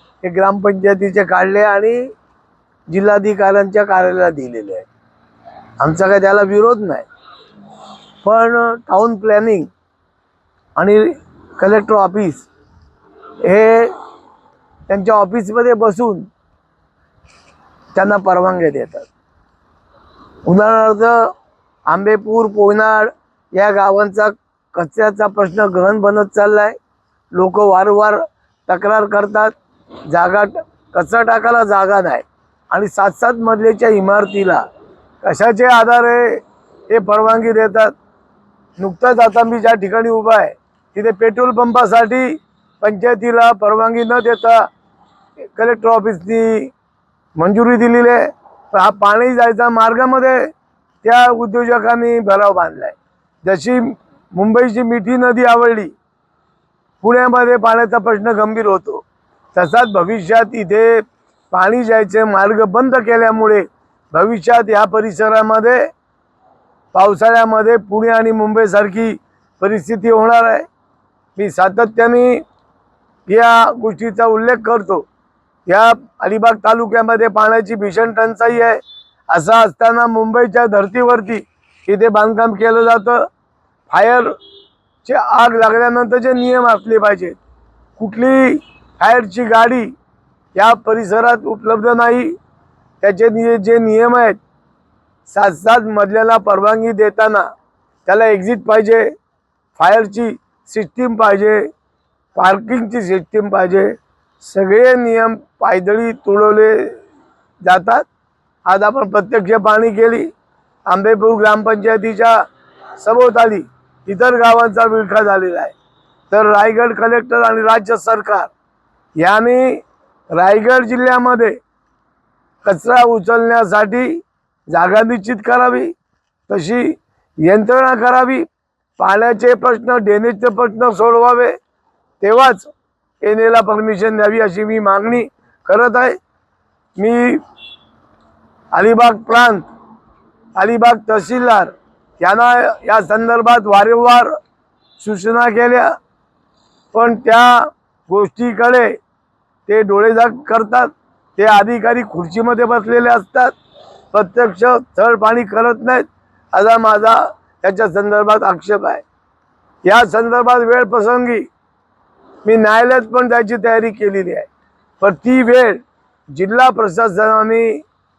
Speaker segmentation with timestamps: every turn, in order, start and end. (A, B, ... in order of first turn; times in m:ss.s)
0:00.2-0:02.1 A
0:02.9-0:04.9 A
0:05.8-0:07.1 A
0:08.2-0:09.7 A
0:10.8-0:12.5 A
0:13.4-0:13.9 A
0:14.9-0:16.3 A
0:17.9-0:19.1 A
0:20.5-0:21.3 A
0:21.9-0:26.8 A
0:27.3-0:29.6 A
0:30.1-0:34.6 A
0:35.2-0:37.9 A
0:38.8-0:44.7 A
0:45.6-0:46.7 A
0:47.4-0:50.5 A
0:51.0-0:55.9 A
0:57.0-1:05.9 A
1:06.9-1:10.7 A
1:11.4-1:12.4 A
1:13.3-1:15.1 A
1:15.7-1:23.3 A
1:23.9-1:24.4 A
1:25.0-1:27.4 A
1:28.0-1:29.9 A
1:30.6-1:32.4 A
1:33.0-1:34.4 A
1:35.3-1:37.5 A
1:38.1-1:39.1 A
1:39.8-1:41.7 A
1:42.4-1:47.0 A
1:47.6-1:48.1 A
1:48.7-1:50.3 A
1:50.9-1:52.4 A
1:53.0-1:55.7 A
1:56.3-1:58.5 A
1:59.2-2:01.6 A
2:02.6-2:05.9 A
2:06.5-2:08.5 A
2:09.0-2:11.6 A
2:12.2-2:16.2 A
2:17.0-2:17.4 A
2:18.7-2:19.6 A
2:20.6-2:24.4 A
2:25.0-2:26.0 A
2:26.9-2:29.0 A
2:29.7-2:33.6 A
2:34.1-2:39.0 A
2:39.8-2:41.5 A
2:42.4-2:44.5 A
2:45.0-2:47.8 A